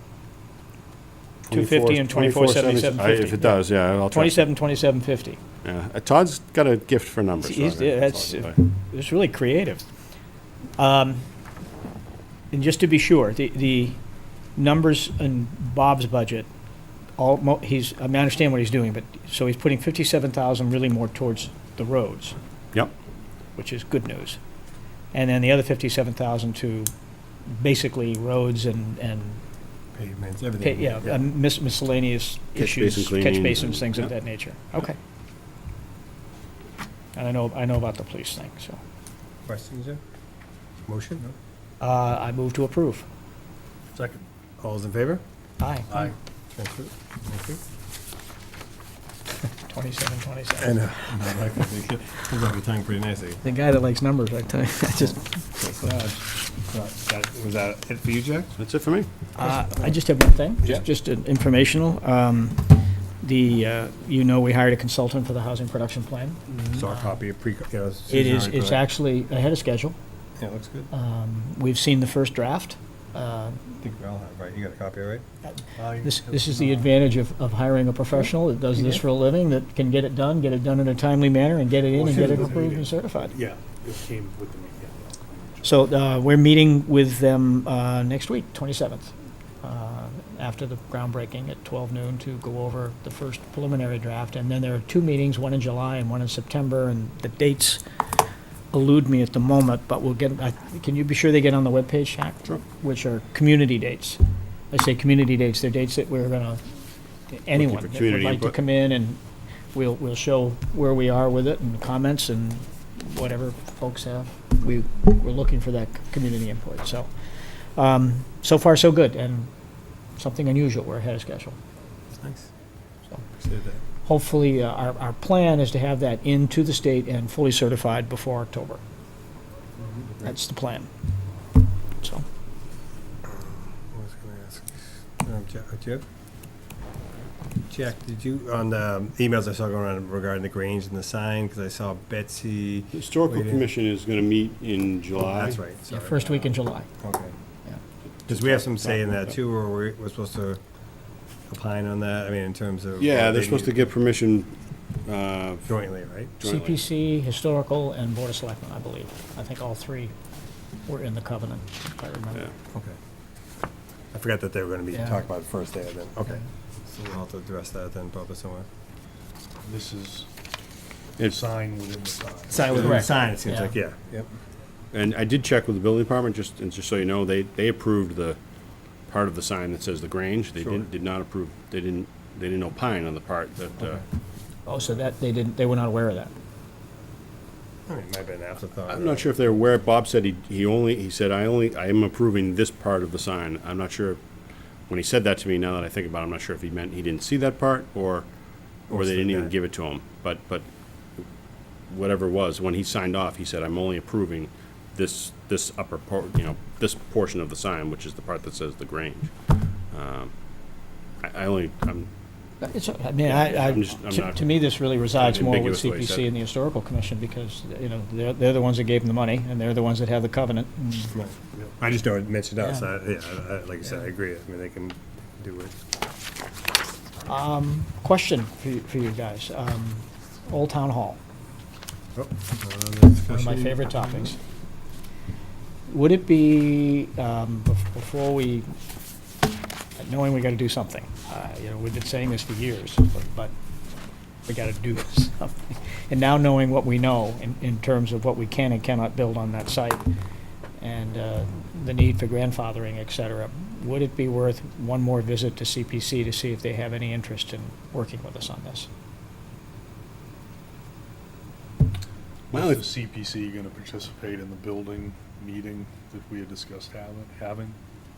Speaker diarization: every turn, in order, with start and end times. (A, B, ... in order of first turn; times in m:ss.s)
0:01.5-0:04.4 A
0:01.5-0:05.4 B
0:05.6-0:08.6 A
0:07.4-0:09.8 B
0:10.8-0:11.2 B
0:12.5-0:14.0 B
0:14.6-0:16.5 B
0:17.2-0:22.4 B
0:23.6-0:24.4 B
0:25.1-0:26.9 B
0:27.5-0:29.4 B
0:30.0-0:31.3 C
0:30.6-0:35.0 B
0:32.6-0:34.0 A
0:37.2-0:38.8 B
0:39.5-0:40.0 C
0:40.9-0:41.3 C
0:41.8-0:43.1 B
0:43.9-0:44.3 D
0:44.6-0:45.2 C
0:45.6-0:46.0 B
0:45.9-0:46.2 D
0:46.5-0:47.6 C
0:49.4-0:50.8 B
0:50.6-0:53.4 C
0:53.4-0:56.0 B
0:55.6-0:58.6 C
0:58.6-0:59.1 A
0:59.4-1:07.2 B
0:59.4-0:59.9 C
1:06.5-1:06.8 D
1:06.7-1:08.8 C
1:08.1-1:10.0 B
1:10.4-1:10.9 C
1:10.9-1:13.7 B
1:13.8-1:15.2 C
1:15.8-1:16.9 D
1:16.0-1:23.3 B
1:21.9-1:25.8 D
1:22.0-1:22.9 C
1:25.6-1:37.8 B
1:38.7-1:44.2 B
1:44.7-1:46.6 B
1:47.3-1:49.2 B
1:47.6-1:48.6 A
1:49.7-1:57.1 B
1:57.8-1:59.5 B
2:00.2-2:01.6 B
2:02.2-2:02.5 C
2:03.3-2:03.8 C
2:04.0-2:08.8 B
2:09.8-2:10.3 C
2:10.2-2:10.9 B
2:13.2-2:16.0 C
2:17.7-2:23.7 C
2:22.9-2:25.6 A
2:25.2-2:26.3 C
2:25.9-2:26.9 B
2:27.0-2:27.4 C
2:28.3-2:29.2 A
2:28.3-2:30.6 C
2:31.5-2:33.9 C
2:33.0-2:35.8 A
2:35.7-2:36.3 C
2:36.4-2:36.8 A
2:36.4-2:40.1 B
2:40.8-2:42.5 B
2:44.1-2:48.7 C
2:49.6-2:50.3 D
2:51.2-2:53.3 D
2:52.5-2:54.3 C
2:52.7-2:53.7 B
2:54.9-2:58.4 A
2:59.1-3:04.0 A
3:00.6-3:00.9 C
3:04.7-3:06.3 B
3:07.9-3:09.4 C
3:08.9-3:14.2 A
3:14.9-3:18.3 A
3:18.9-3:20.7 A
3:18.9-3:19.5 C
3:21.9-3:30.3 A
3:31.2-3:32.1 A
3:32.6-3:41.2 B
3:33.2-3:36.3 A
3:41.1-3:45.8 C
3:47.3-3:51.2 B
3:52.2-3:54.3 C
3:53.3-3:54.4 B
3:55.9-3:58.7 B
4:00.0-4:03.5 B
4:04.5-4:10.1 B
4:10.8-4:18.9 B
4:22.5-4:22.8 A
4:22.5-4:27.8 D